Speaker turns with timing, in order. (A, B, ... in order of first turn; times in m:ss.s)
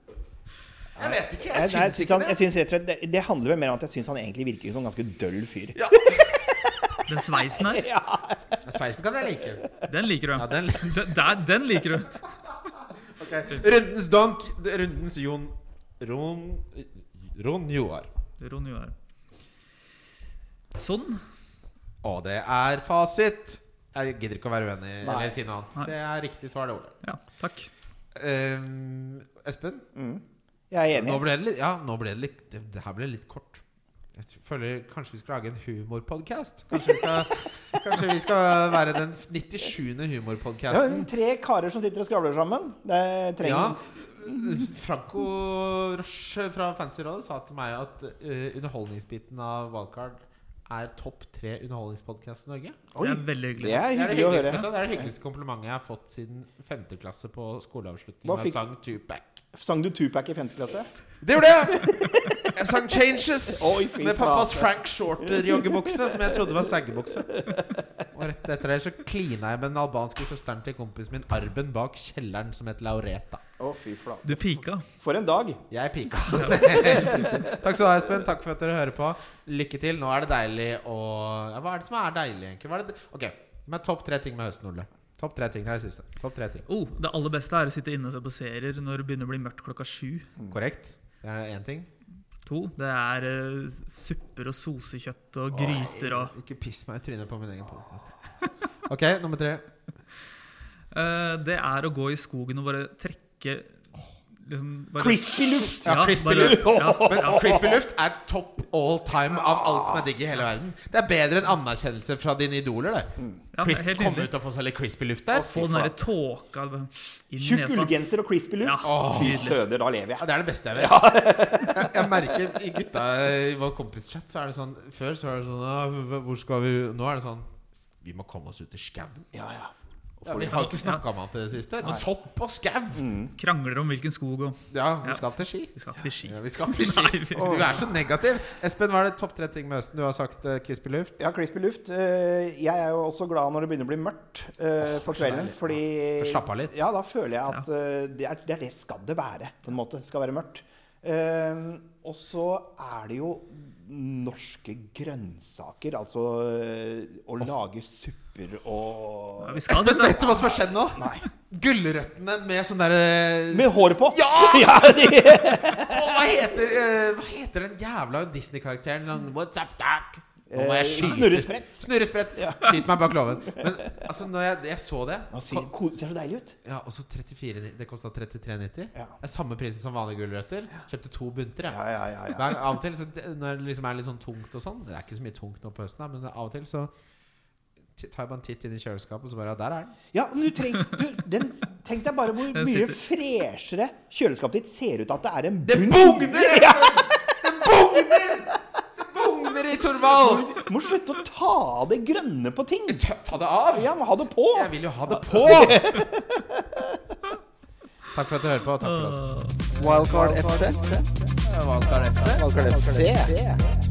0:01.0-0:02.4 A
0:01.0-0:08.6 B
0:05.7-0:06.3 A
0:07.1-0:07.9 C
0:08.6-0:09.6 A
0:09.8-0:12.2 C
0:10.3-0:11.3 A
0:13.0-0:18.1 A
0:18.4-0:18.9 C
0:20.7-0:21.2 C
0:22.0-0:26.9 A
0:25.0-0:25.4 B
0:27.0-0:27.7 C
0:28.1-0:29.8 A
0:29.9-0:31.2 B
0:30.9-0:33.6 A
0:34.1-0:41.1 A
0:40.7-0:43.8 B
0:43.4-0:52.8 A
0:52.9-0:55.0 B
0:53.0-0:54.6 C
0:53.6-0:59.4 A
0:58.2-0:58.6 B
0:59.5-1:00.9 B
1:01.2-1:07.4 A
1:01.8-1:02.6 B
1:03.5-1:06.4 B
1:07.3-1:07.8 B
1:08.1-1:13.4 A
1:13.6-1:14.3 B
1:14.2-1:14.8 C
1:15.0-1:15.6 B
1:15.7-1:26.7 A
1:16.4-1:17.2 C
1:16.5-1:17.4 B
1:26.7-1:30.3 C
1:30.5-1:31.9 A
1:32.4-1:36.3 C
1:35.5-1:38.2 A
1:38.8-1:39.7 A
1:40.9-1:43.8 C
1:44.4-1:47.6 C
1:45.0-1:47.8 B
1:45.8-1:55.7 A
1:49.4-1:50.0 B
1:53.5-1:54.3 C
1:55.3-1:56.0 B
1:55.4-1:58.1 C
1:57.4-2:02.3 B
1:58.6-1:59.6 C
1:58.8-1:59.6 A
2:00.2-2:09.3 A
2:09.3-2:10.6 B
2:10.2-2:13.1 A
2:10.4-2:11.0 C
2:13.0-2:13.3 B
2:13.4-2:17.8 C
2:14.7-2:15.7 A
2:16.2-2:21.2 A
2:21.2-2:40.3 B
2:24.8-2:26.7 A
2:39.4-2:40.5 C
2:39.7-2:55.7 A
2:40.9-2:41.2 B
2:43.5-2:46.1 B
2:50.5-2:51.8 B
2:52.4-2:52.7 B
2:55.3-2:56.6 B
2:56.6-3:06.9 A
3:01.7-3:02.5 B
3:08.0-3:10.0 A
3:10.1-3:18.6 B
3:12.5-3:13.0 C
3:15.6-3:20.6 A
3:20.1-3:23.0 B
3:22.9-3:24.0 A
3:23.7-3:27.0 B
3:24.5-3:26.0 A
3:28.1-3:30.4 A
3:28.8-3:29.6 C
3:29.7-3:33.4 D
3:32.4-3:33.6 A